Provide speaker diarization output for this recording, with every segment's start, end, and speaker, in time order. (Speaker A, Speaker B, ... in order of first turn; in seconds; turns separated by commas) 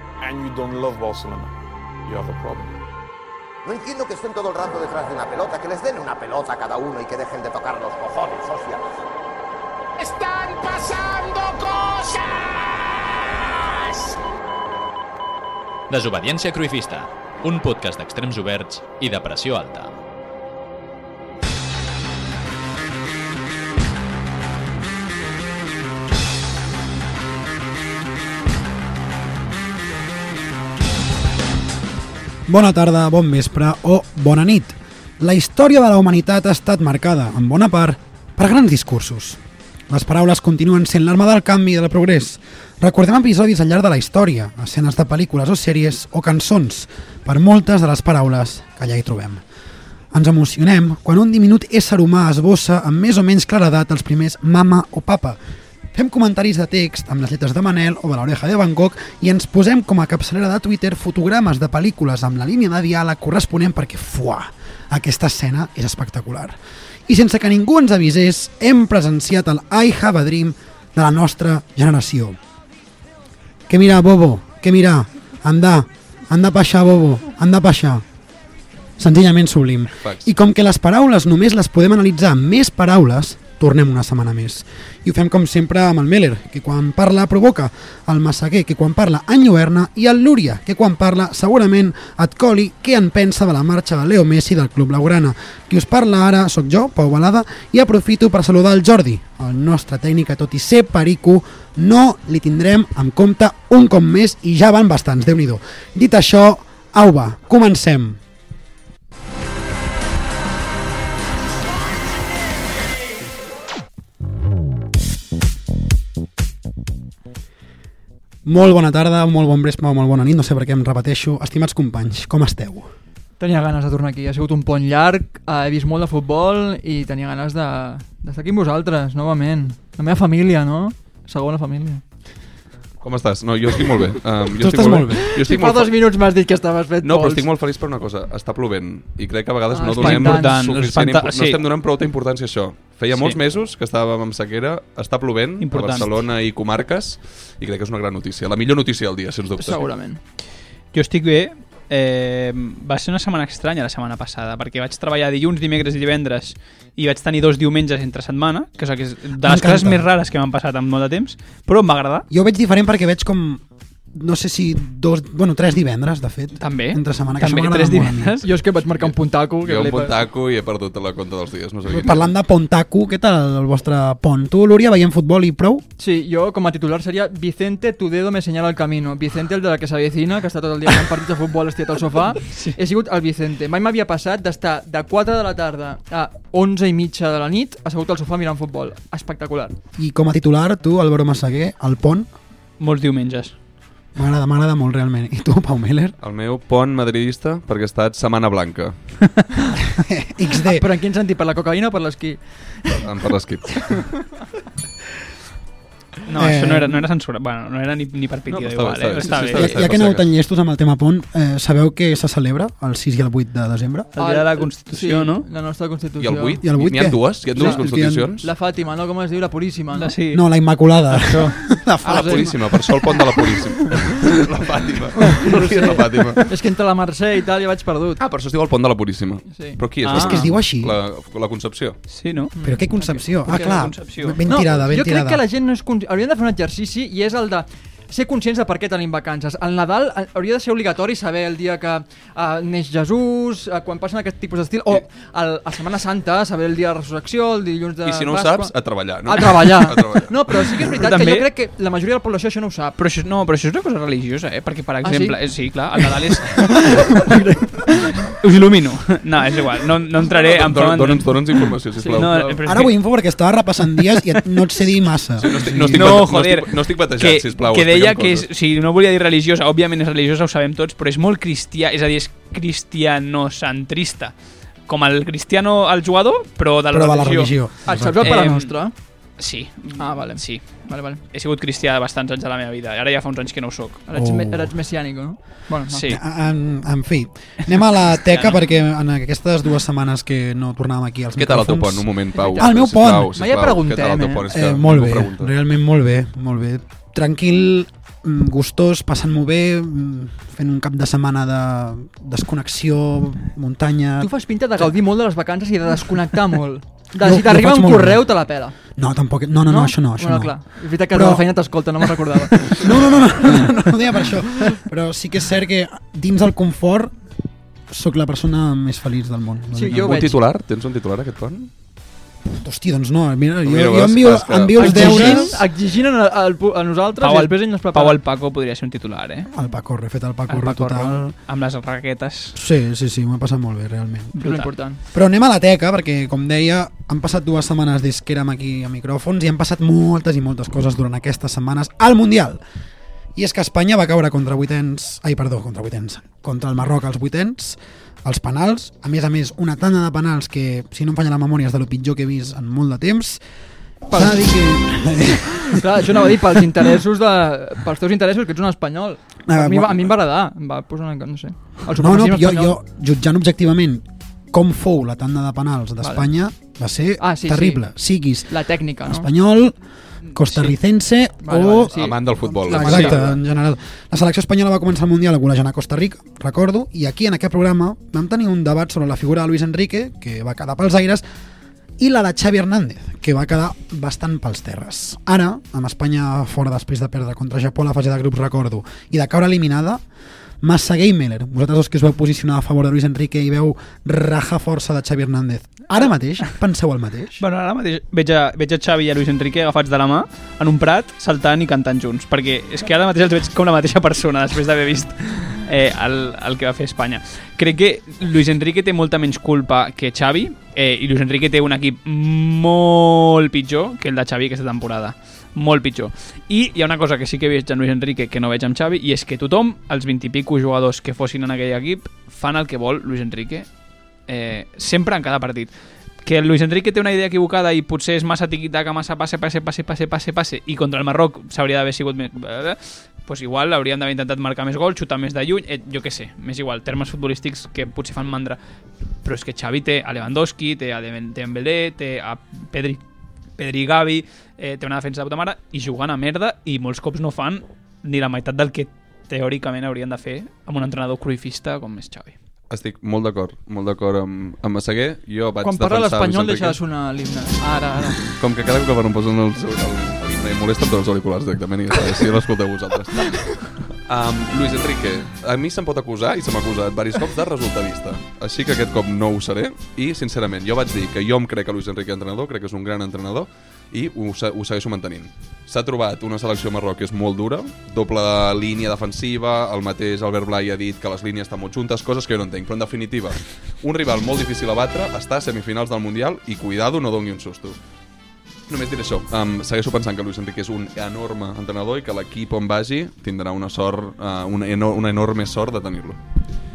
Speaker A: 0.2-1.5, Speaker A: 2.0-2.7, Speaker B: 3.6-8.8, Speaker C: 10.0-14.2, Speaker D: 15.9-19.9, Speaker E: 32.5-49.4, Speaker E: 50.1-55.4, Speaker E: 55.9-72.4, Speaker E: 73.7-78.0, Speaker E: 79.0-108.2, Speaker F: 80.0-80.3, Speaker E: 118.5-122.9, Speaker G: 123.4-132.0, Speaker F: 133.0-135.9, Speaker E: 134.6-135.4, Speaker G: 135.0-137.5, Speaker F: 137.0-149.8, Speaker G: 139.7-140.6, Speaker H: 140.0-141.6, Speaker H: 145.6-146.1, Speaker G: 149.6-150.2, Speaker H: 150.9-162.3, Speaker E: 159.4-160.1, Speaker E: 162.3-168.5, Speaker H: 166.6-168.4, Speaker G: 168.4-170.2, Speaker F: 169.0-172.3, Speaker E: 171.9-175.8, Speaker G: 176.0-189.8, Speaker E: 190.0-192.3, Speaker H: 192.8-193.5, Speaker E: 194.2-196.2, Speaker F: 196.2-199.0, Speaker E: 200.0-200.8, Speaker G: 200.6-203.1, Speaker F: 203.0-204.0, Speaker G: 203.8-204.1, Speaker H: 206.3-209.7, Speaker E: 206.4-207.1, Speaker F: 208.5-210.3, Speaker E: 209.3-214.1, Speaker H: 214.2-215.5, Speaker G: 214.2-216.6, Speaker F: 216.2-218.5, Speaker E: 216.6-218.3, Speaker G: 217.6-217.9, Speaker G: 218.4-220.2, Speaker H: 219.9-220.4, Speaker E: 220.3-223.3, Speaker H: 221.1-221.6, Speaker G: 222.0-222.5, Speaker F: 222.1-226.4, Speaker G: 225.4-228.2, Speaker F: 228.2-232.0, Speaker H: 230.0-230.4, Speaker E: 230.1-231.0, Speaker H: 232.1-234.4, Speaker G: 232.6-232.9, Speaker E: 232.6-235.4, Speaker G: 234.5-248.7, Speaker F: 248.1-250.9, Speaker G: 249.2-253.0, Speaker H: 251.0-251.5, Speaker H: 253.0-257.2, Speaker G: 255.0-255.4, Speaker G: 256.0-258.2, Speaker H: 258.4-261.4, Speaker F: 260.2-262.6, Speaker G: 262.0-262.6, Speaker H: 262.1-263.0, Speaker E: 262.7-266.1, Speaker F: 265.4-268.5, Speaker H: 265.6-274.3, Speaker H: 274.9-277.5, Speaker E: 276.9-278.5, Speaker G: 277.9-278.9, Speaker H: 278.2-278.7, Speaker H: 279.4-284.0, Speaker G: 280.0-281.2, Speaker G: 284.1-286.1, Speaker E: 284.1-284.7, Speaker H: 285.9-286.2, Speaker E: 286.0-293.4, Speaker H: 288.3-288.6, Speaker F: 291.4-295.5, Speaker G: 292.4-292.7, Speaker G: 293.3-294.5, Speaker E: 294.5-304.9, Speaker G: 304.2-308.8, Speaker E: 307.2-308.4, Speaker E: 309.0-311.5, Speaker G: 309.7-312.9, Speaker E: 312.6-317.1, Speaker E: 317.9-320.3, Speaker G: 319.7-320.4, Speaker F: 320.0-321.7, Speaker E: 322.5-325.6, Speaker F: 323.6-325.4, Speaker G: 324.8-328.2, Speaker H: 324.8-325.4, Speaker H: 327.2-329.5, Speaker E: 329.5-331.4, Speaker H: 330.5-332.6, Speaker E: 332.6-334.4, Speaker H: 334.4-334.7, Speaker G: 334.4-335.0, Speaker E: 335.1-342.6, Speaker E: 343.4-353.4, Speaker E: 354.1-356.3, Speaker G: 354.1-354.4, Speaker G: 355.6-362.8, Speaker E: 359.5-360.1, Speaker E: 362.0-369.8, Speaker G: 366.0-366.3, Speaker G: 367.2-367.8, Speaker G: 368.5-369.3, Speaker E: 370.3-371.9, Speaker G: 371.4-373.4, Speaker F: 371.9-373.3, Speaker E: 372.7-381.2, Speaker E: 382.0-390.0, Speaker E: 390.6-397.4, Speaker H: 397.4-423.7, Speaker H: 424.3-425.7, Speaker H: 426.2-438.6, Speaker H: 439.2-443.0, Speaker H: 443.6-452.4, Speaker F: 452.7-456.8, Speaker G: 455.6-458.2, Speaker F: 458.2-463.4, Speaker G: 463.3-463.6, Speaker F: 464.1-487.8, Speaker F: 488.7-496.2